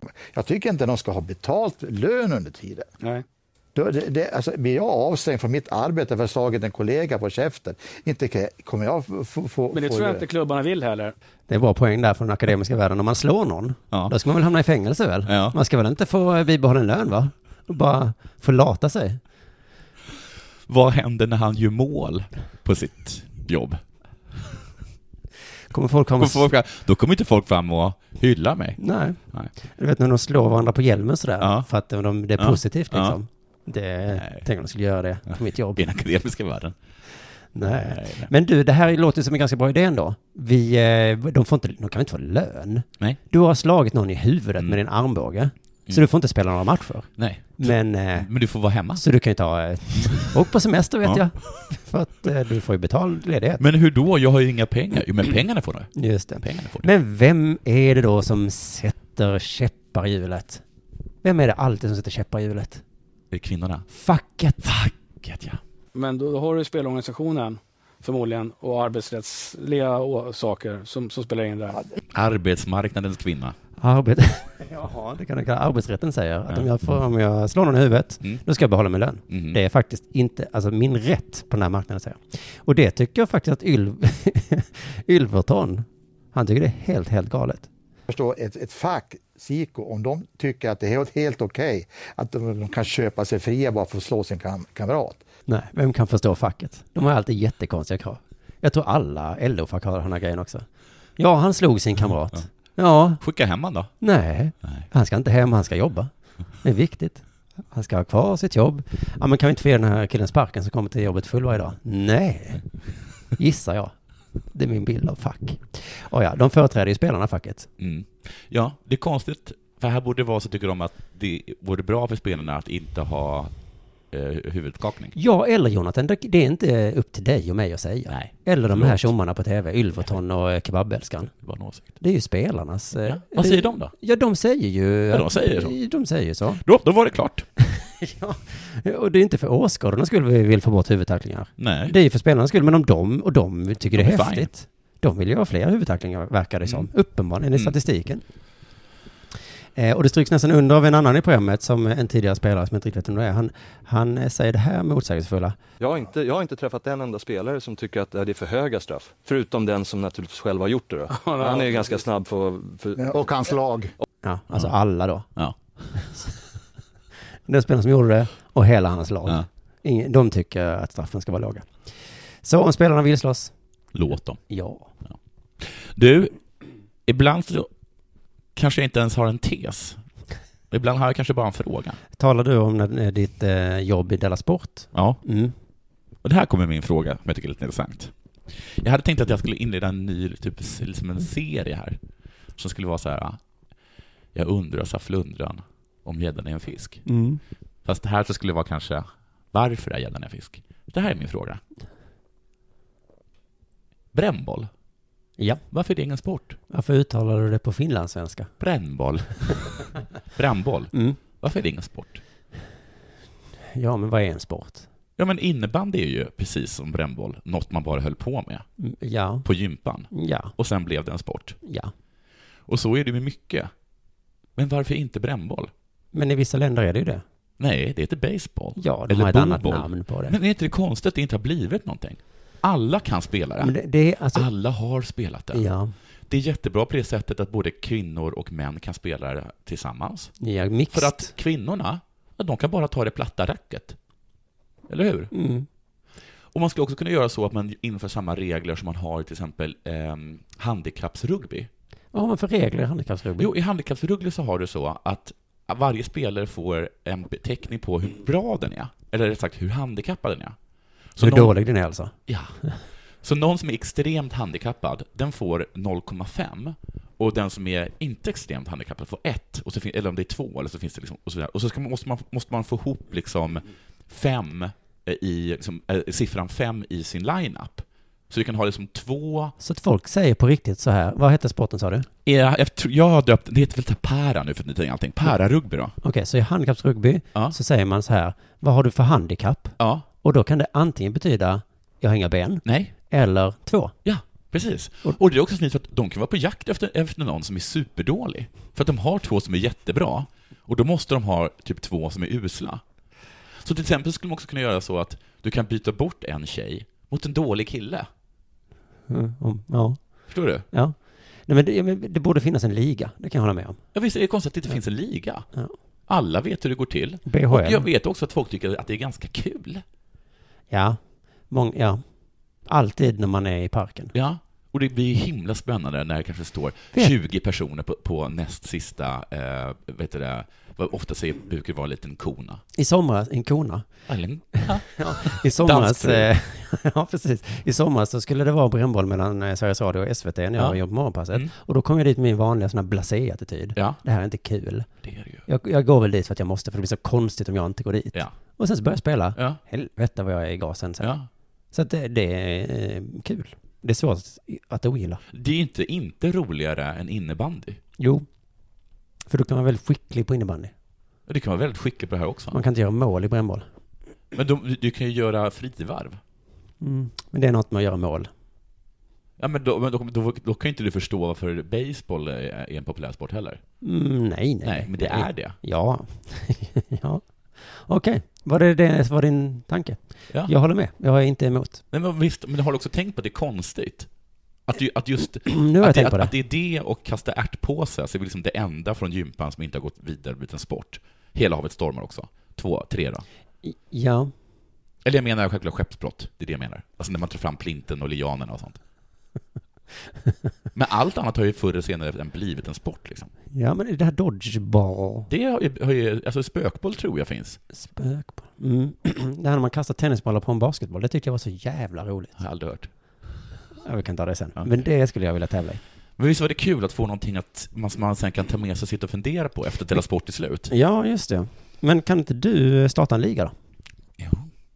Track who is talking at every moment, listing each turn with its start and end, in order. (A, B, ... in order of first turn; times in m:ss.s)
0:00.3-0:02.9 A
0:03.7-0:10.3 A
0:09.7-0:11.1 B
0:11.5-0:19.2 C
0:15.2-0:15.6 D
0:20.7-0:23.8 D
0:25.7-0:26.5 C
0:26.2-0:28.8 D
0:28.8-0:35.8 C
0:31.4-0:31.7 D
0:32.4-0:33.2 D
0:34.1-0:34.5 D
0:35.3-0:36.8 D
0:37.5-0:48.3 C
0:37.6-0:38.3 D
0:47.2-0:49.0 D
0:48.9-0:53.6 C
0:50.0-0:50.3 D
0:53.6-0:56.9 D
0:55.9-1:00.6 C
1:01.2-1:02.8 C
1:03.3-1:03.8 D
1:03.9-1:04.8 C
1:04.6-1:05.6 D
1:05.9-1:11.8 B
1:12.1-1:13.6 D
1:13.8-1:27.7 C
1:19.3-1:19.6 D
1:28.1-1:35.2 A
1:35.5-1:40.6 C
1:41.2-1:43.2 C
1:43.2-1:43.9 D
1:44.0-1:52.6 C
1:53.4-1:53.9 C
1:54.5-1:57.7 C
1:57.8-2:03.5 D
2:04.1-2:05.1 D
2:05.1-2:11.3 C
2:08.1-2:09.1 D
2:11.4-2:12.0 D
2:12.0-2:16.6 C
2:13.0-2:13.9 D
2:15.1-2:15.8 D
2:16.6-2:17.4 D
2:17.6-2:28.2 C
2:21.6-2:22.0 D
2:23.9-2:24.5 D
2:29.7-2:35.6 C
2:35.8-2:43.2 E
2:41.2-2:41.7 B
2:43.0-2:43.9 A
2:44.2-2:45.3 C
2:45.9-2:46.3 C
2:47.5-2:51.7 C
2:52.4-2:53.5 C
2:53.9-2:54.4 D
2:54.5-2:54.9 C
2:55.1-2:56.4 D
2:57.0-2:57.7 D
2:58.5-3:00.0 D
3:00.7-3:02.0 D
3:02.2-3:05.5 C
3:04.9-3:05.2 D
3:06.2-3:12.0 D
3:12.6-3:13.4 D
3:14.3-3:17.0 D
3:17.0-3:17.4 C
3:17.8-3:21.6 D
3:24.1-3:24.7 D
3:25.7-3:26.6 D
3:26.7-3:28.5 C
3:28.6-3:29.8 D
3:30.3-3:32.2 D
3:30.9-3:31.2 C
3:33.7-3:34.8 C
3:35.2-3:38.6 D
3:38.8-3:39.4 C
3:39.4-3:41.6 D
3:40.1-3:40.5 C
3:41.6-3:41.9 C
3:42.7-3:43.7 D
3:44.6-3:45.7 D
3:46.1-3:47.2 C
3:47.6-3:53.7 D
3:48.8-3:50.4 C
3:53.6-3:54.5 C
3:54.3-3:55.6 D
3:55.5-3:55.9 C
3:56.3-4:00.3 D
4:00.4-4:01.3 C
4:00.9-4:04.0 D
4:04.9-4:05.3 D
4:05.3-4:05.6 C
4:06.5-4:11.7 D
4:12.1-4:13.5 C
4:13.4-4:20.6 D
4:21.2-4:21.5 D
4:21.2-4:22.1 C
4:22.3-4:22.5 D
4:23.2-4:39.5 D
4:39.6-4:42.1 C
4:42.2-4:46.0 D
4:46.0-4:53.9 C
4:49.8-4:50.0 D
4:52.6-4:52.9 D
4:54.0-5:02.8 D
5:03.6-5:08.1 D
5:09.1-5:13.8 C
5:10.3-5:10.6 D
5:13.9-5:15.5 D
5:16.1-5:19.8 D
5:17.2-5:17.9 C
5:20.7-5:22.0 C
5:22.7-5:24.1 C
5:24.1-5:32.6 D
5:32.7-5:33.8 C
5:34.1-5:36.3 D
5:34.6-5:44.9 C
5:45.0-5:45.4 D
5:45.4-5:51.1 C
5:51.0-5:51.3 D
5:51.7-5:55.2 C
5:55.3-5:57.8 D
5:58.0-5:58.2 C
5:59.3-6:00.7 C
6:01.3-6:02.6 D
6:02.5-6:03.6 C
6:04.3-6:06.2 D
6:06.8-6:08.3 C
6:09.4-6:13.6 D
6:13.8-6:21.8 C
6:14.6-6:15.6 D
6:21.9-6:24.1 D
6:24.7-6:33.2 D
6:25.4-6:26.3 C
6:33.6-6:34.3 C
6:35.0-6:38.8 D
6:40.7-6:43.3 D
6:43.5-6:45.3 C
6:45.3-6:47.6 D
6:47.7-6:52.4 C
6:52.4-6:52.9 D
6:53.8-6:55.8 C
6:56.2-7:00.7 D
7:00.7-7:03.5 C
7:04.2-7:04.5 D